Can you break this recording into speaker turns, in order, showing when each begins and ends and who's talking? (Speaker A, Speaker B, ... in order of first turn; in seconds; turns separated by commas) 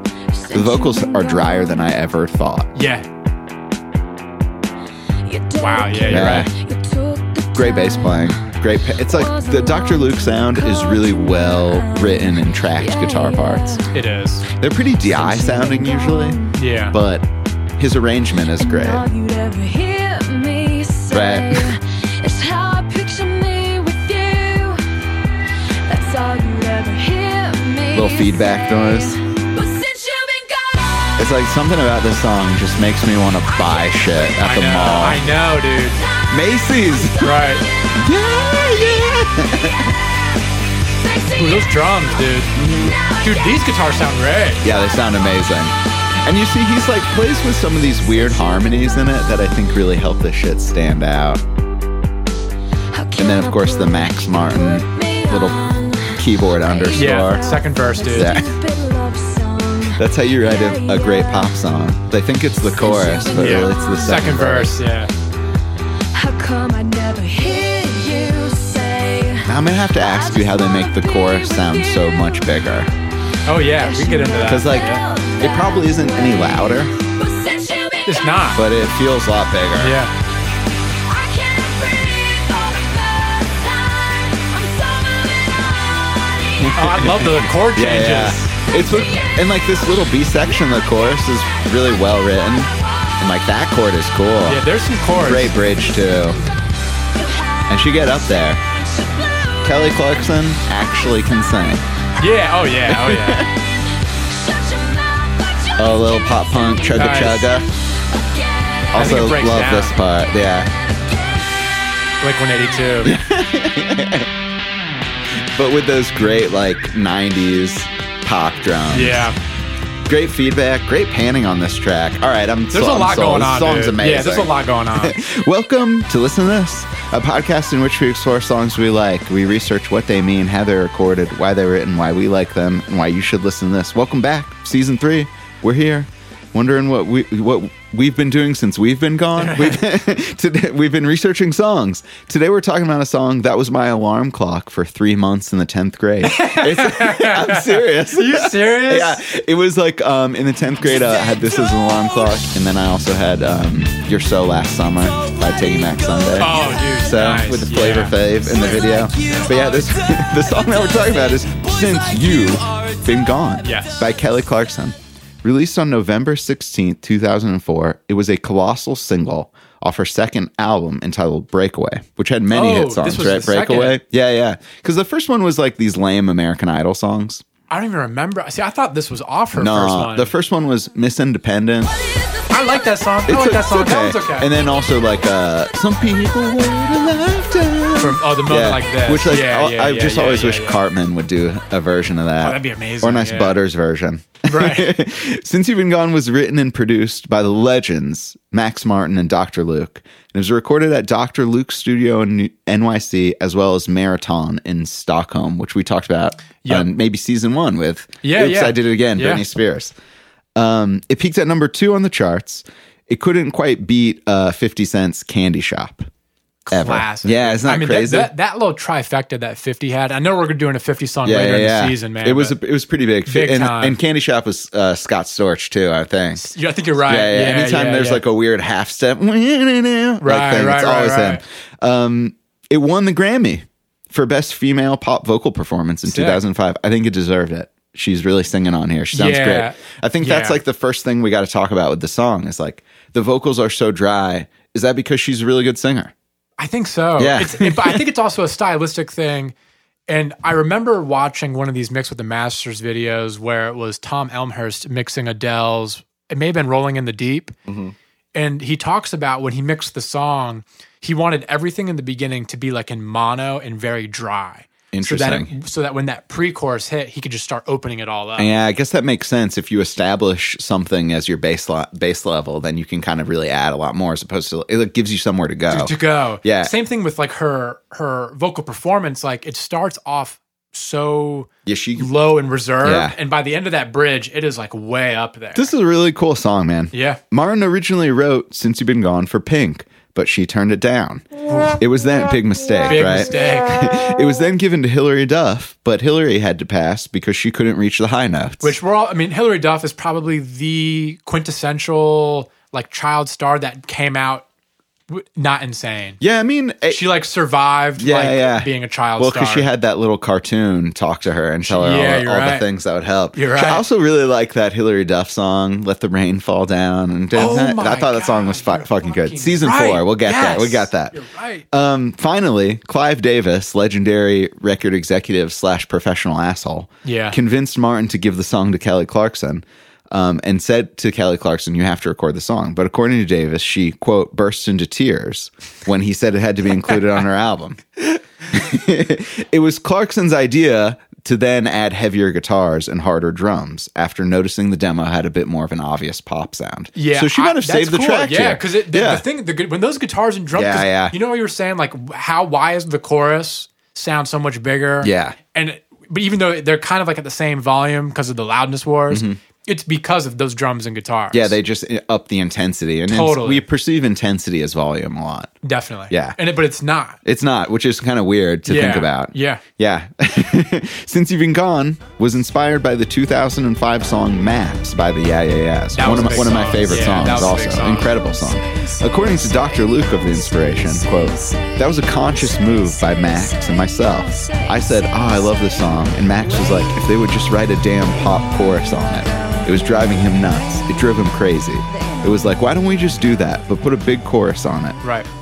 Speaker A: 0.4-1.9, Speaker B: 0.5-2.7, Speaker C: 2.7-3.0, Speaker A: 5.2-8.0, Speaker C: 5.5-6.5, Speaker B: 6.1-6.5, Speaker B: 7.5-13.8, Speaker A: 9.1-12.1, Speaker A: 13.0-13.9, Speaker C: 13.9-14.4, Speaker B: 14.6-17.3, Speaker A: 15.2-16.5, Speaker C: 16.5-16.9, Speaker B: 17.8-19.1, Speaker A: 18.7-24.9, Speaker B: 21.1-21.7, Speaker A: 25.9-31.1, Speaker B: 27.9-29.2, Speaker B: 31.2-35.2, Speaker C: 34.4-36.0, Speaker B: 36.3-37.4, Speaker C: 37.2-37.6, Speaker B: 38.0-39.9, Speaker C: 41.2-42.6, Speaker B: 42.5-43.0, Speaker C: 43.2-44.6, Speaker B: 44.6-51.4, Speaker A: 52.9-56.1, Speaker B: 53.2-57.4, Speaker A: 56.8-57.6, Speaker C: 56.9-58.3, Speaker B: 58.1-58.5, Speaker A: 58.1-60.0, Speaker B: 59.9-64.8, Speaker A: 60.6-61.2, Speaker A: 62.8-64.1, Speaker C: 63.3-65.1, Speaker A: 66.1-69.5, Speaker B: 69.5-72.9, Speaker A: 70.1-72.1, Speaker C: 73.5-75.0, Speaker A: 73.9-76.0, Speaker B: 74.5-76.9, Speaker A: 77.2-78.2, Speaker C: 78.0-78.6, Speaker B: 78.5-80.0, Speaker C: 79.8-80.1, Speaker A: 81.2-83.6, Speaker A: 84.5-85.6, Speaker B: 86.6-94.6, Speaker C: 86.7-88.5, Speaker C: 94.5-95.5, Speaker B: 95.1-96.4, Speaker B: 97.7-98.6, Speaker B: 99.6-101.8, Speaker C: 102.2-103.5, Speaker B: 102.9-103.5, Speaker A: 104.6-105.9, Speaker B: 105.8-107.7, Speaker C: 106.9-107.5, Speaker A: 108.2-108.9, Speaker B: 108.9-110.7, Speaker C: 108.9-110.0, Speaker C: 112.2-113.1, Speaker B: 113.0-114.3, Speaker B: 115.5-119.3, Speaker C: 118.9-119.3, Speaker B: 120.0-177.4, Speaker C: 122.7-125.1, Speaker C: 139.4-139.8, Speaker C: 146.2-149.2, Speaker C: 156.4-158.1, Speaker C: 163.6-164.1, Speaker C: 172.5-174.0, Speaker C: 177.7-180.3, Speaker B: 179.5-182.0, Speaker C: 182.5-184.5, Speaker B: 183.3-209.9, Speaker C: 188.0-190.8, Speaker C: 192.4-193.6, Speaker C: 194.5-195.0, Speaker C: 206.6-206.9, Speaker C: 208.2-209.4, Speaker B: 210.6-216.0, Speaker C: 216.7-222.5, Speaker B: 216.7-218.3, Speaker B: 221.2-226.5, Speaker C: 223.3-224.0, Speaker C: 226.3-228.2, Speaker B: 227.0-246.1, Speaker C: 230.2-231.4, Speaker C: 236.1-236.4, Speaker C: 239.1-240.6, Speaker C: 246.6-249.5, Speaker B: 247.2-248.0, Speaker C: 250.1-257.5, Speaker B: 257.7-257.9, Speaker C: 258.3-268.5, Speaker B: 264.9-265.5, Speaker B: 268.4-276.7, Speaker C: 275.7-285.7, Speaker B: 281.6-282.1, Speaker B: 282.8-283.1, Speaker B: 285.5-298.8, Speaker C: 286.9-287.2, Speaker C: 291.5-291.8, Speaker C: 292.9-293.8, Speaker C: 298.6-304.5, Speaker C: 305.1-306.2, Speaker B: 306.2-307.0, Speaker C: 306.9-309.7, Speaker B: 308.0-321.2, Speaker C: 311.6-312.6, Speaker C: 313.3-313.8, Speaker C: 317.3-321.6, Speaker B: 321.7-349.2, Speaker C: 327.0-327.4, Speaker C: 346.9-361.5, Speaker B: 350.5-351.1, Speaker B: 355.0-355.4, Speaker B: 359.1-359.4, Speaker B: 361.3-365.5, Speaker C: 363.1-363.6, Speaker C: 365.6-367.2, Speaker B: 366.1-366.4, Speaker B: 367.2-395.0, Speaker C: 368.6-369.6, Speaker C: 375.9-378.1, Speaker A: 383.9-385.2, Speaker C: 395.0-395.3